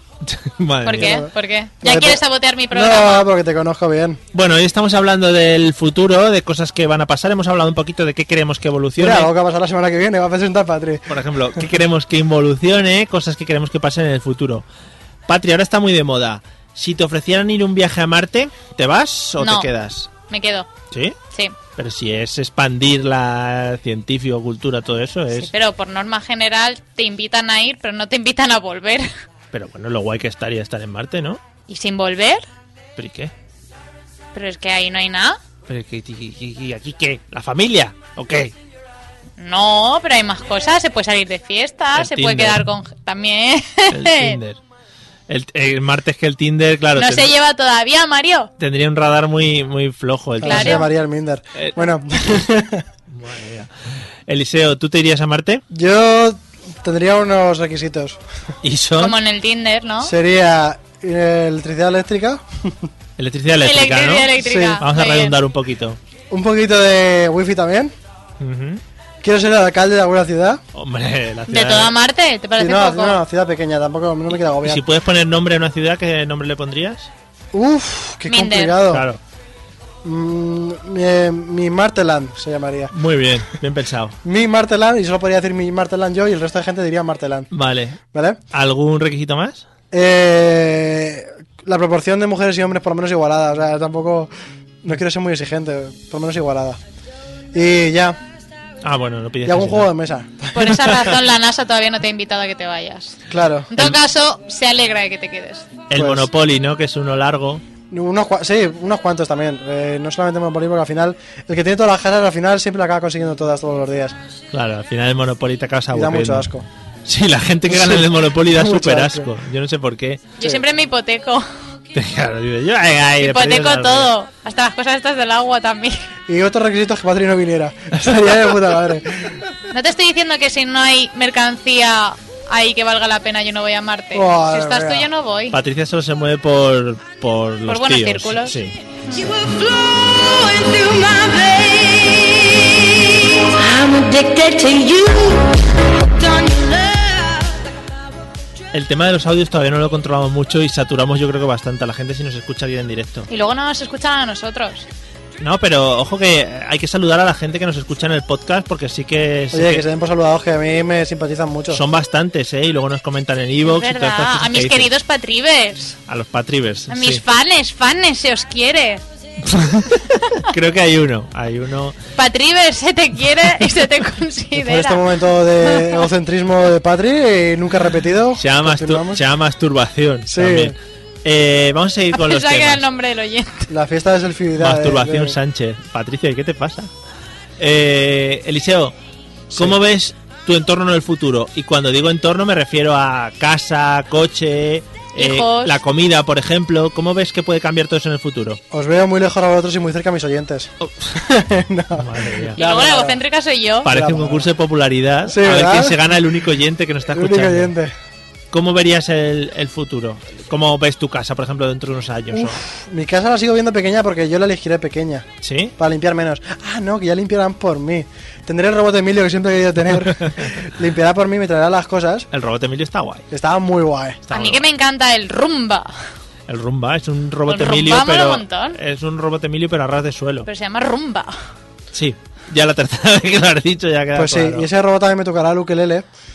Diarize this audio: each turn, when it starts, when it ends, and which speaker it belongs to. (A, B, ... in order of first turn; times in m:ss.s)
0:00.2-0:01.2 A
0:00.8-0:03.3 B
0:01.0-0:01.3 C
0:01.8-0:04.2 C
0:04.3-0:09.3 A
0:09.0-0:11.6 C
0:11.1-0:14.6 A
0:15.3-0:20.1 A
0:19.4-0:19.7 B
0:20.3-0:20.7 B
0:20.9-0:21.2 A
0:21.8-0:25.5 A
0:25.3-0:29.1 B
0:29.5-0:31.4 A
0:31.7-0:32.4 B
0:33.0-0:33.3 A
0:34.3-0:35.4 B
0:35.7-0:38.5 A
0:39.4-0:44.4 B
0:41.9-0:42.6 A
0:43.9-0:44.6 A
0:45.3-0:47.3 A
0:47.0-0:48.5 B
0:48.6-0:50.9 A
0:50.4-0:52.8 C
0:50.4-0:50.9 B
0:51.6-0:51.8 A
0:53.1-0:53.7 A
0:54.3-0:55.6 A
0:55.7-0:58.2 C
0:58.6-0:59.2 A
0:59.0-1:00.1 B
1:00.0-1:02.9 C
1:03.2-1:06.0 A
1:03.6-1:05.4 B
1:04.4-1:04.8 C
1:06.3-1:07.9 C
1:08.4-1:08.8 A
1:09.2-1:10.6 C
1:10.7-1:11.9 A
1:11.5-1:13.2 B
1:12.6-1:14.8 C
1:14.6-1:17.1 A
1:17.5-1:19.0 C
1:18.3-1:18.8 B
1:18.9-1:19.2 A
1:20.0-1:22.9 C
1:22.9-1:24.2 A
1:24.2-1:27.5 C
1:27.5-1:28.0 A
1:28.1-1:28.4 C
1:28.5-1:29.6 A
1:29.9-1:34.3 C
1:34.8-1:36.8 C
1:37.5-1:38.2 C
1:38.8-1:39.9 A
1:39.4-1:40.7 C
1:40.5-1:43.2 B
1:43.3-1:43.7 C
1:43.7-1:45.7 B
1:45.9-1:47.6 A
1:45.9-1:46.3 C
1:47.9-1:54.2 C
1:54.5-1:56.5 A
1:55.9-1:56.6 C
1:57.0-2:00.2 A
1:57.7-1:59.3 C
2:00.4-2:01.4 B
2:01.9-2:04.1 A
2:03.2-2:06.0 B
2:06.3-2:09.4 C
2:08.0-2:08.4 A
2:09.7-2:15.6 B
2:14.1-2:15.1 C
2:15.5-2:18.8 A
2:17.7-2:18.6 B
2:19.2-2:27.5 D
2:28.7-2:33.3 A
2:33.3-2:34.9 B
2:35.4-2:39.8 A
2:39.5-2:41.8 C
2:41.7-2:44.9 A
2:43.6-2:46.0 B
2:46.1-2:47.2 A
2:46.9-2:49.0 B
2:49.4-2:52.0 A
2:52.2-2:55.1 B
2:54.6-2:59.2 C
2:55.6-2:56.0 B
2:58.4-3:02.8 A
3:00.3-3:00.8 C
3:02.1-3:03.7 B
3:03.7-3:05.4 C
3:04.6-3:06.9 A
3:07.6-3:08.9 A
3:09.5-3:09.8 C
3:09.5-3:18.6 A
3:15.2-3:15.8 B
3:18.7-3:23.2 C
3:20.8-3:21.1 A
3:22.0-3:22.6 A
3:22.6-3:23.9 B
3:23.8-3:27.7 A
3:23.8-3:24.5 C
3:25.2-3:26.0 C
3:27.1-3:27.9 C
3:28.5-3:32.6 A
3:32.3-3:35.3 C
3:35.4-3:35.7 A
3:35.8-3:42.3 C
3:40.1-3:40.6 A
3:42.3-3:43.2 A
3:43.3-3:44.2 C
3:44.3-3:44.6 A
3:44.3-3:45.9 B
3:46.5-3:50.5 A
3:47.5-3:48.8 B
3:50.4-3:51.4 B
3:51.9-3:54.7 A
3:54.1-3:56.1 C